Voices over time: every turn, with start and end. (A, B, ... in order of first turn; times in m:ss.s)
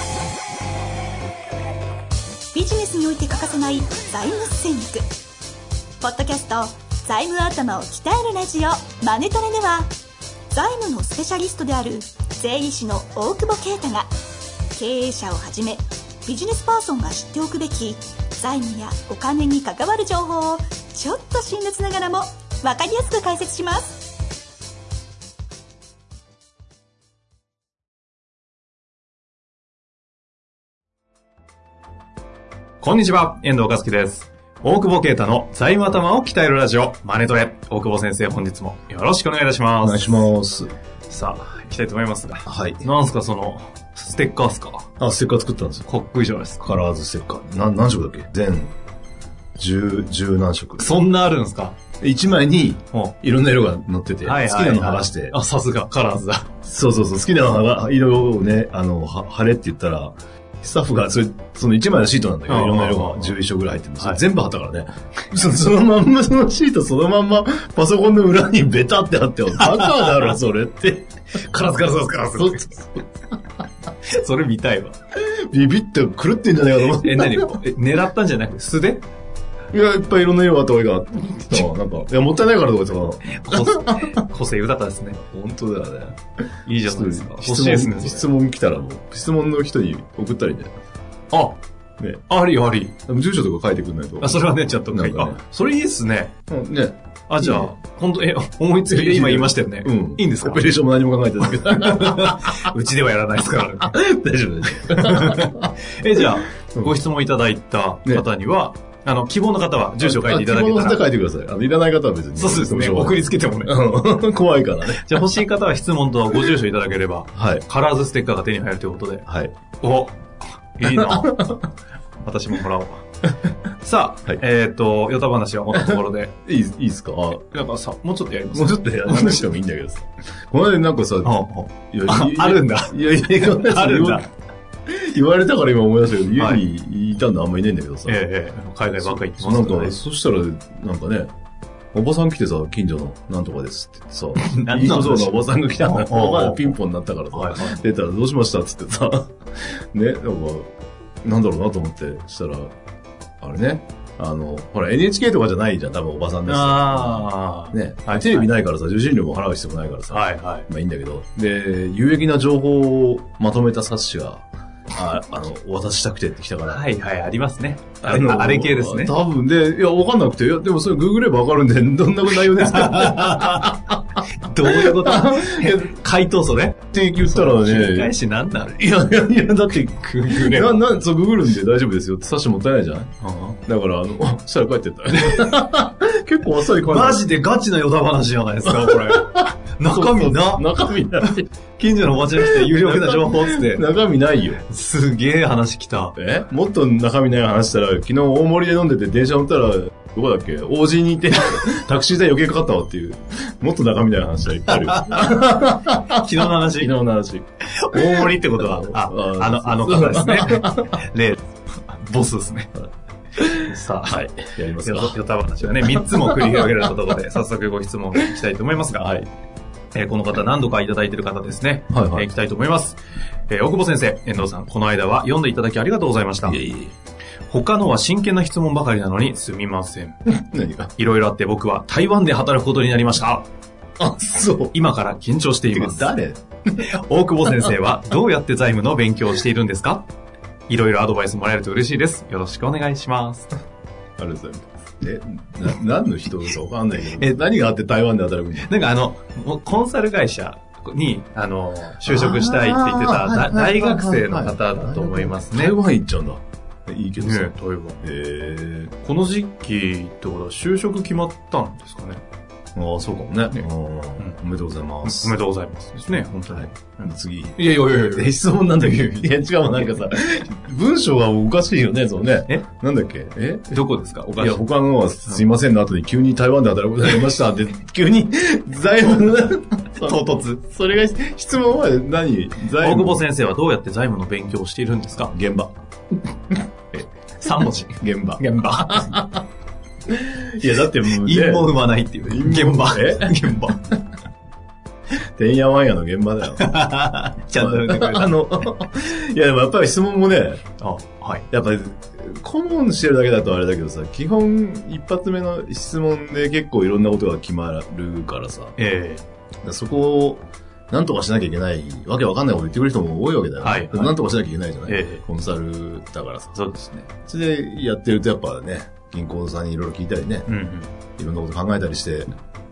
0:02.5-0:05.1 A
0:06.0-0:09.9 A
0:10.5-0:14.1 A
0:14.7-0:24.2 A
0:32.8-0:40.3 B
0:39.8-0:40.7 C
0:41.1-0:44.9 B
0:42.5-0:42.9 C
0:45.0-0:45.9 C
0:45.9-0:46.6 B
0:46.6-0:48.7 C
0:49.6-0:51.0 C
0:50.8-0:51.8 B
0:52.0-0:55.4 C
0:54.2-0:56.5 B
0:56.6-1:11.1 C
1:02.5-1:03.4 B
1:09.6-1:10.4 B
1:11.5-1:12.9 B
1:12.4-1:12.9 C
1:14.1-1:15.0 B
1:15.2-1:17.6 C
1:16.9-1:19.1 B
1:19.7-1:24.2 C
1:23.4-1:25.2 B
1:25.2-1:26.2 C
1:26.7-1:28.3 B
1:26.8-1:30.7 C
1:31.3-1:31.6 B
1:32.3-1:32.9 B
1:33.1-1:35.4 C
1:34.2-1:36.3 B
1:36.5-1:37.7 C
1:37.3-1:40.8 B
1:38.9-1:42.7 C
1:41.4-1:44.0 B
1:43.8-1:45.7 C
1:44.8-1:51.0 B
1:50.0-1:55.3 C
1:52.4-1:53.8 B
1:54.9-2:01.7 B
1:57.4-1:57.6 C
1:59.3-1:59.5 C
2:00.8-2:01.6 C
2:02.2-2:03.0 B
2:03.8-2:06.3 B
2:05.7-2:07.4 C
2:07.4-2:09.5 B
2:08.5-2:11.4 C
2:11.2-2:14.3 B
2:11.9-2:14.3 C
2:14.9-2:18.2 C
2:16.4-2:16.6 B
2:18.1-2:19.9 B
2:19.0-2:21.3 C
2:21.9-2:30.7 C
2:24.4-2:26.8 B
2:27.3-2:27.8 B
2:31.2-2:32.7 C
2:33.4-2:46.8 C
2:36.5-2:38.5 B
2:40.1-2:40.7 B
2:46.7-2:49.1 B
2:48.0-2:55.9 C
2:52.4-2:53.8 B
2:54.4-2:58.8 B
2:56.9-3:03.1 C
2:59.8-3:00.8 B
3:03.2-3:03.6 B
3:03.7-3:07.2 C
3:05.1-3:05.7 B
3:06.6-3:10.7 B
3:08.7-3:11.5 C
3:11.2-3:13.8 B
3:12.3-3:14.6 C
3:14.7-3:16.2 B
3:16.2-3:31.0 C
3:24.7-3:25.4 B
3:26.1-3:26.9 B
3:27.8-3:31.4 B
3:31.9-3:32.7 B
3:33.4-3:37.0 C
3:33.4-3:34.2 B
3:34.8-3:39.2 B
3:39.0-3:39.2 C
3:39.9-3:46.6 B
3:41.9-3:42.3 C
3:46.4-3:46.9 C
3:47.5-3:50.2 B
3:50.3-3:50.9 C
3:51.0-3:53.5 B
3:54.0-3:54.8 C
3:54.7-3:56.1 B
3:55.7-3:56.9 C
3:56.8-4:00.1 B
3:57.5-3:57.7 C
4:00.7-4:03.5 B
4:04.2-4:08.7 C
4:07.2-4:07.4 B
4:08.6-4:15.8 B
4:12.0-4:19.0 C
4:17.2-4:18.0 B
4:19.0-4:22.2 B
4:22.8-4:25.4 C
4:25.0-4:29.2 B
4:26.5-4:33.8 C
4:33.7-4:34.6 B
4:34.4-4:43.2 C
4:40.0-4:40.6 B
4:42.8-4:45.3 B
4:45.3-4:45.7 C
4:46.5-4:49.4 C
4:47.4-4:49.2 B
4:50.1-4:54.0 C
4:50.9-4:53.8 B
4:55.4-4:56.7 C
4:56.6-4:58.4 B
4:57.6-5:00.6 C
5:00.8-5:01.5 B
5:01.5-5:08.8 C
5:08.8-5:09.2 B
5:09.6-5:16.6 C
5:13.6-5:14.2 B
5:14.9-5:15.2 B
5:16.6-5:17.1 B
5:17.2-5:20.5 C
5:20.5-5:20.9 B
5:21.2-5:22.3 C